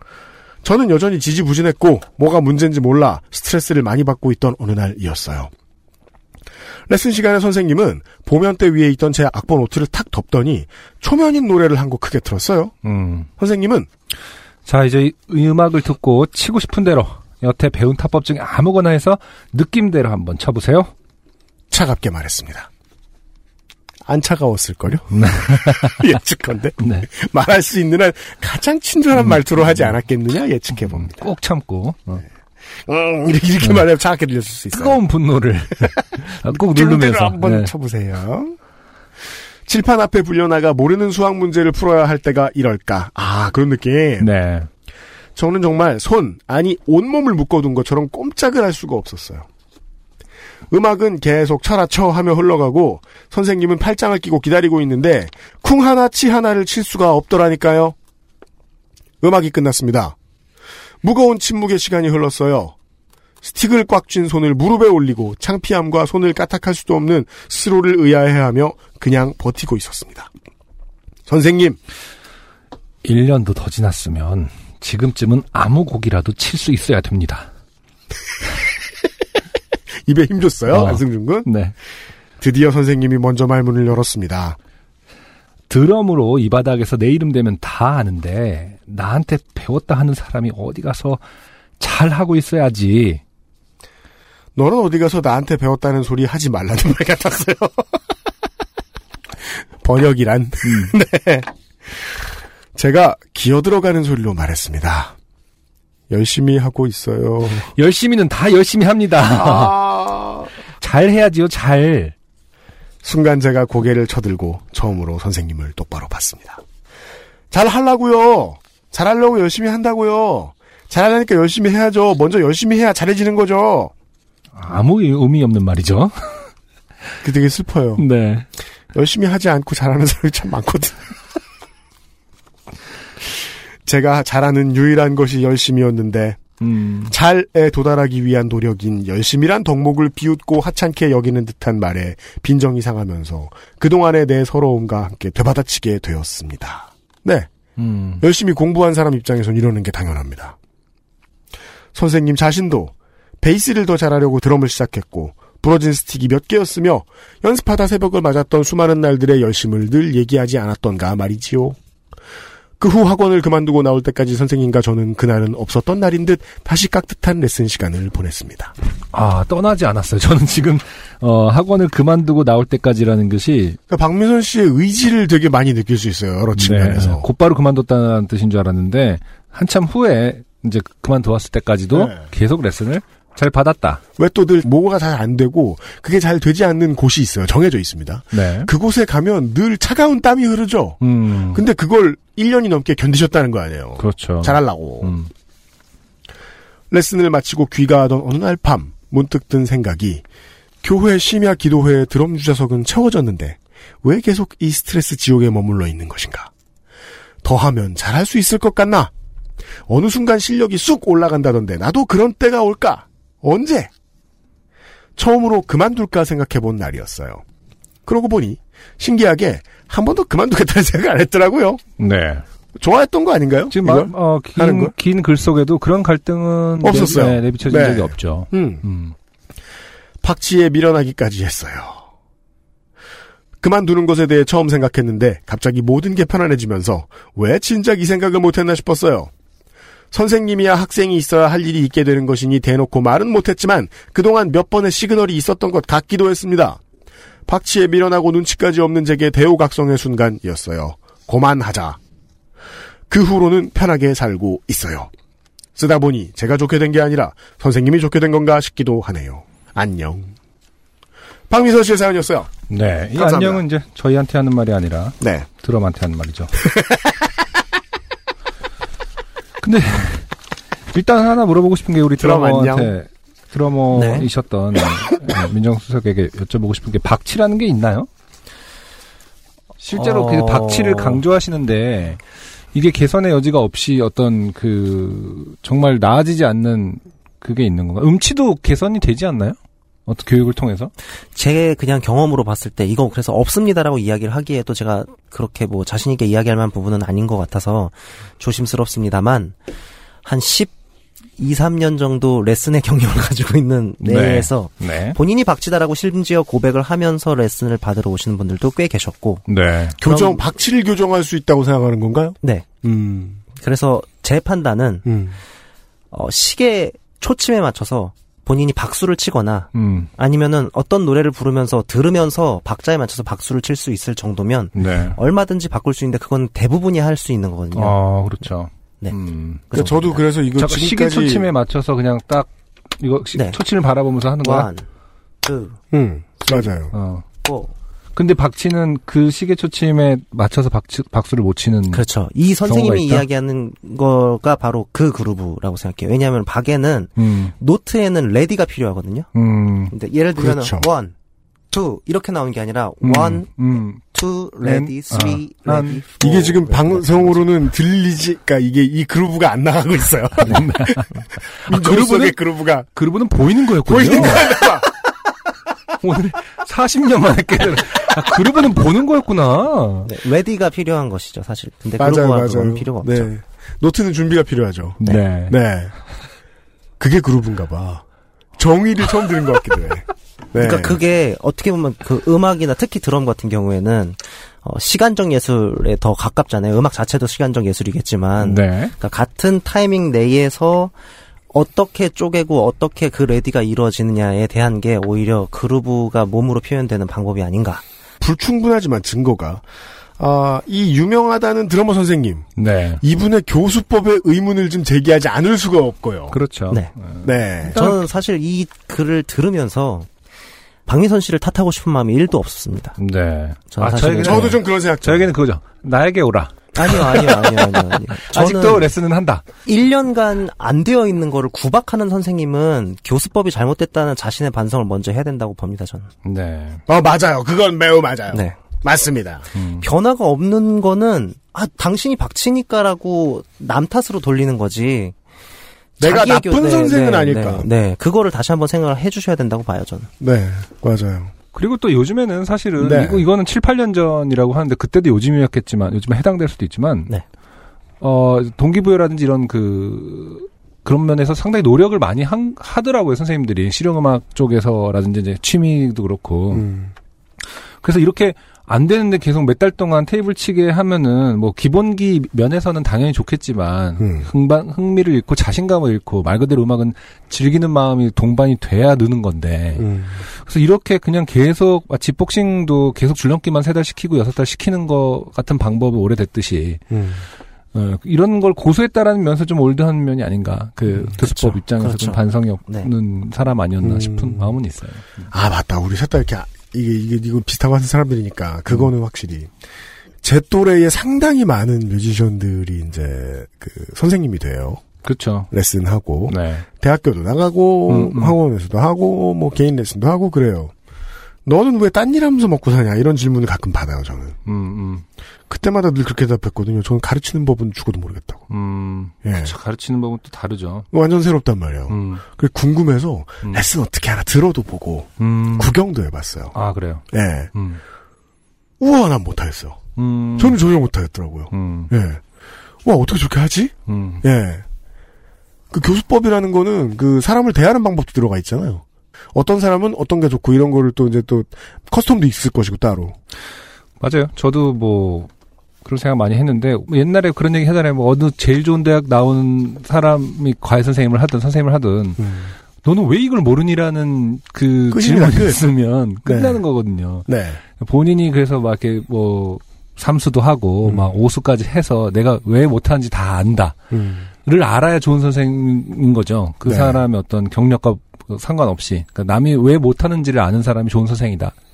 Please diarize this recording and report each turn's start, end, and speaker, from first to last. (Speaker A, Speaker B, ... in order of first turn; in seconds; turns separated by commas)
Speaker A: 0.6-5.5, Speaker A: 6.9-12.7, Speaker B: 12.8-13.3, Speaker A: 13.4-13.9, Speaker B: 14.7-20.9, Speaker A: 21.7-22.7, Speaker A: 24.1-31.3, Speaker B: 25.1-26.1, Speaker B: 26.8-27.1, Speaker B: 30.9-32.2, Speaker A: 32.8-35.0, Speaker B: 34.7-37.7, Speaker A: 36.5-38.6, Speaker A: 39.7-44.3, Speaker B: 44.2-44.7, Speaker A: 45.4-49.5, Speaker A: 50.7-57.9, Speaker A: 59.2-60.1, Speaker A: 61.0-62.7, Speaker A: 63.4-70.3, Speaker A: 71.3-71.8, Speaker B: 73.0-77.5, Speaker A: 80.0-81.5, Speaker B: 80.7-81.7, Speaker A: 82.4-84.6, Speaker B: 85.7-91.2, Speaker B: 91.8-93.2, Speaker A: 94.5-98.0, Speaker A: 99.8-102.2, Speaker B: 100.6-100.9, Speaker A: 102.7-105.1, Speaker A: 106.1-107.7, Speaker B: 107.7-109.8, Speaker A: 109.2-110.5, Speaker B: 110.8-112.1, Speaker A: 113.0-116.6, Speaker A: 117.5-123.9, Speaker B: 124.5-126.5, Speaker A: 127.2-128.0, Speaker B: 128.0-128.4, Speaker A: 128.9-131.0, Speaker A: 133.8-136.4, Speaker B: 136.6-137.1, Speaker A: 137.1-147.5, Speaker B: 147.8-148.2, Speaker A: 148.2-150.6, Speaker A: 151.9-161.8, Speaker A: 162.8-168.7, Speaker B: 169.1-173.8, Speaker A: 173.9-177.3, Speaker B: 176.6-184.0, Speaker A: 181.9-182.2, Speaker A: 184.2-195.1, Speaker B: 188.3-188.7, Speaker B: 191.0-191.6, Speaker B: 194.0-195.3, Speaker A: 196.9-200.2, Speaker A: 200.8-206.5, Speaker A: 207.4-209.1, Speaker A: 209.9-213.9, Speaker A: 215.2-217.4, Speaker A: 218.1-221.8, Speaker B: 222.0-222.4, Speaker A: 222.8-224.9, Speaker B: 223.7-229.1, Speaker A: 226.8-228.8, Speaker A: 230.2-232.0, Speaker A: 233.6-239.3, Speaker A: 240.1-246.8, Speaker A: 247.5-252.0, Speaker A: 253.1-255.1, Speaker A: 255.7-260.3, Speaker A: 261.5-262.5, Speaker B: 262.7-266.5, Speaker A: 263.1-263.6, Speaker A: 265.2-265.4, Speaker A: 266.6-267.1, Speaker B: 269.6-270.3, Speaker B: 270.9-278.1, Speaker A: 272.2-272.9, Speaker C: 273.9-274.3, Speaker B: 279.8-282.2, Speaker C: 279.9-281.2, Speaker B: 282.7-290.9, Speaker C: 291.3-299.5, Speaker C: 300.2-300.7, Speaker C: 301.4-309.4, Speaker B: 304.0-305.2, Speaker B: 309.5-310.0, Speaker A: 310.0-313.4, Speaker C: 310.0-310.4, Speaker C: 313.6-315.1, Speaker A: 315.1-315.4, Speaker C: 316.1-328.0, Speaker B: 319.7-320.1, Speaker B: 324.7-325.2, Speaker B: 327.7-329.6, Speaker C: 329.7-330.2, Speaker A: 329.7-331.5, Speaker B: 330.6-334.7, Speaker C: 334.4-334.8, Speaker C: 335.4-335.8, Speaker A: 335.9-336.9, Speaker B: 336.9-337.2, Speaker C: 337.4-337.7, Speaker B: 338.1-342.0, Speaker C: 341.9-349.3, Speaker B: 342.6-343.2, Speaker B: 347.2-347.5, Speaker B: 349.3-349.9, Speaker C: 349.9-351.1, Speaker A: 350.4-350.9, Speaker C: 351.7-357.4, Speaker B: 353.0-354.0, Speaker B: 354.6-356.0, Speaker A: 356.2-361.1, Speaker B: 360.4-362.4, Speaker A: 361.6-362.9, Speaker B: 362.9-364.6, Speaker A: 363.8-364.9, Speaker B: 366.0-370.1, Speaker C: 370.1-373.3, Speaker A: 372.0-375.9, Speaker B: 375.0-375.6, Speaker A: 377.0-378.0, Speaker A: 378.6-381.0, Speaker C: 380.6-390.9, Speaker B: 388.4-388.9, Speaker C: 391.5-397.8, Speaker A: 398.2-399.6, Speaker A: 400.2-402.5, Speaker B: 402.6-403.0, Speaker A: 403.0-406.4, Speaker B: 406.3-407.9, Speaker A: 407.2-407.9, Speaker C: 407.6-410.1, Speaker C: 410.9-413.0, Speaker B: 413.0-419.4, Speaker C: 413.7-414.5, Speaker A: 414.2-415.3, Speaker C: 416.8-418.9, Speaker C: 419.6-426.1, Speaker B: 426.2-426.8, Speaker A: 426.9-429.5, Speaker C: 428.3-428.6, Speaker B: 429.5-429.9, Speaker C: 429.8-435.1, Speaker C: 436.0-440.1, Speaker A: 436.0-437.7, Speaker A: 440.2-441.3, Speaker B: 441.5-447.1, Speaker A: 442.8-443.2, Speaker B: 448.0-456.6, Speaker A: 456.5-456.9, Speaker B: 457.8-476.8, Speaker A: 464.0-464.3, Speaker A: 469.8-470.2, Speaker A: 476.9-477.2, Speaker B: 477.7-485.2, Speaker C: 481.2-482.9, Speaker A: 483.8-484.5, Speaker A: 485.3-489.5, Speaker A: 490.2-494.8, Speaker B: 495.0-495.5, Speaker A: 495.5-500.7, Speaker B: 496.3-496.6, Speaker B: 497.9-498.4, Speaker A: 501.4-504.4, Speaker B: 504.4-505.0, Speaker A: 505.5-508.4, Speaker B: 508.5-510.9, Speaker A: 509.2-509.5, Speaker A: 510.9-516.5, Speaker B: 511.9-512.2, Speaker B: 515.2-515.7, Speaker B: 516.5-517.8, Speaker A: 517.1-517.5, Speaker A: 518.8-519.8, Speaker B: 520.0-520.6, Speaker A: 520.4-522.2, Speaker B: 521.5-521.9, Speaker A: 522.8-524.6, Speaker B: 523.9-524.2, Speaker A: 525.7-533.1, Speaker B: 534.0-535.3, Speaker B: 535.8-553.8, Speaker A: 542.2-542.5, Speaker A: 544.9-545.6, Speaker A: 546.2-546.6, Speaker A: 547.3-547.6, Speaker A: 550.8-551.1, Speaker A: 553.9-554.3, Speaker B: 554.4-561.5, Speaker A: 556.6-557.0